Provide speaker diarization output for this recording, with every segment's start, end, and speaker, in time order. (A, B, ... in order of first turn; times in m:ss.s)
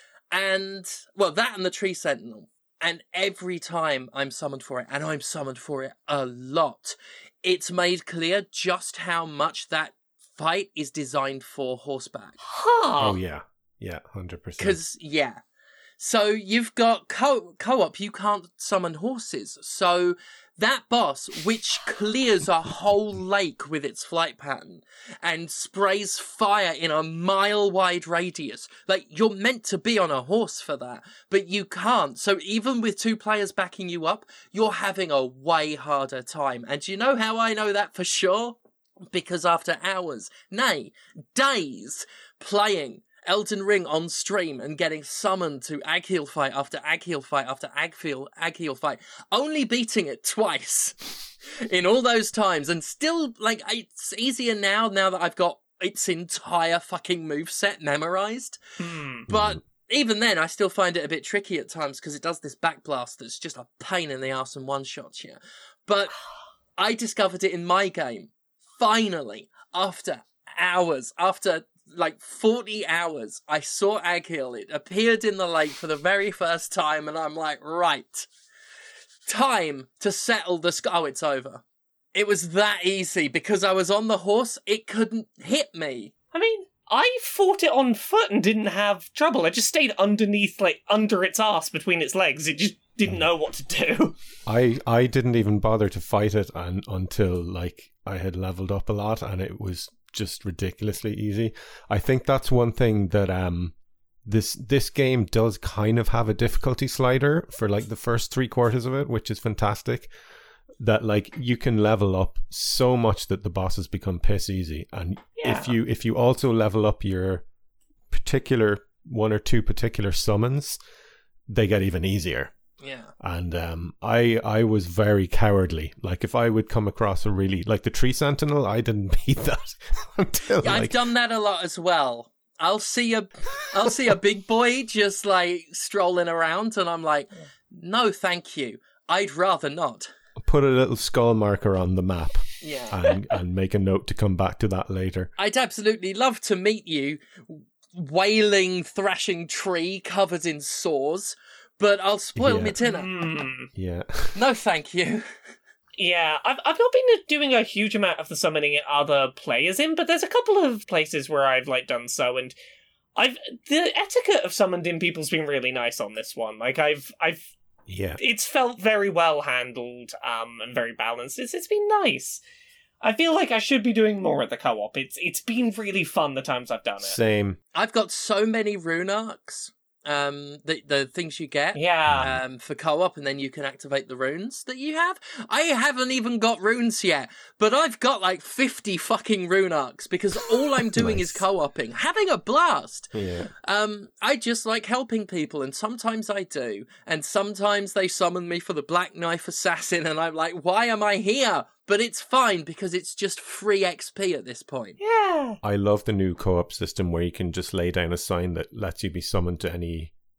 0:00.3-0:12.4 A
0:12.4-0:13.2 B
0:13.0-0:14.8 C
0:14.6-0:15.4 A
0:16.0-0:38.6 A
0:39.1-0:58.6 A
0:58.8-0:59.3 B
0:59.3-1:06.2 A
0:59.3-0:59.6 C
1:06.8-1:18.3 A
1:19.2-1:21.6 A
1:22.1-1:26.1 A
1:26.3-1:34.2 B
1:34.4-1:50.1 C
1:50.8-1:57.4 C
1:55.4-1:55.7 B
1:58.1-2:00.8 C
2:01.5-2:02.5 C
2:02.8-2:03.1 A
2:03.2-2:11.0 C
2:10.6-2:20.1 A
2:20.4-2:25.3 C
2:22.6-2:23.0 A
2:25.4-2:33.1 A
2:32.4-2:32.7 C
2:32.8-2:33.7 B
2:33.7-2:34.4 C
2:34.3-2:35.3 A
2:36.0-2:42.6 B
2:43.2-2:47.5 B
2:47.9-2:48.2 C
2:48.2-2:52.4 B
2:53.0-2:57.2 B
2:57.0-2:57.6 C
2:57.7-3:25.0 A
3:01.7-3:02.3 B
3:02.1-3:02.4 C
3:10.9-3:11.4 C
3:13.1-3:13.5 C
3:25.0-3:25.6 B
3:25.6-3:30.1 C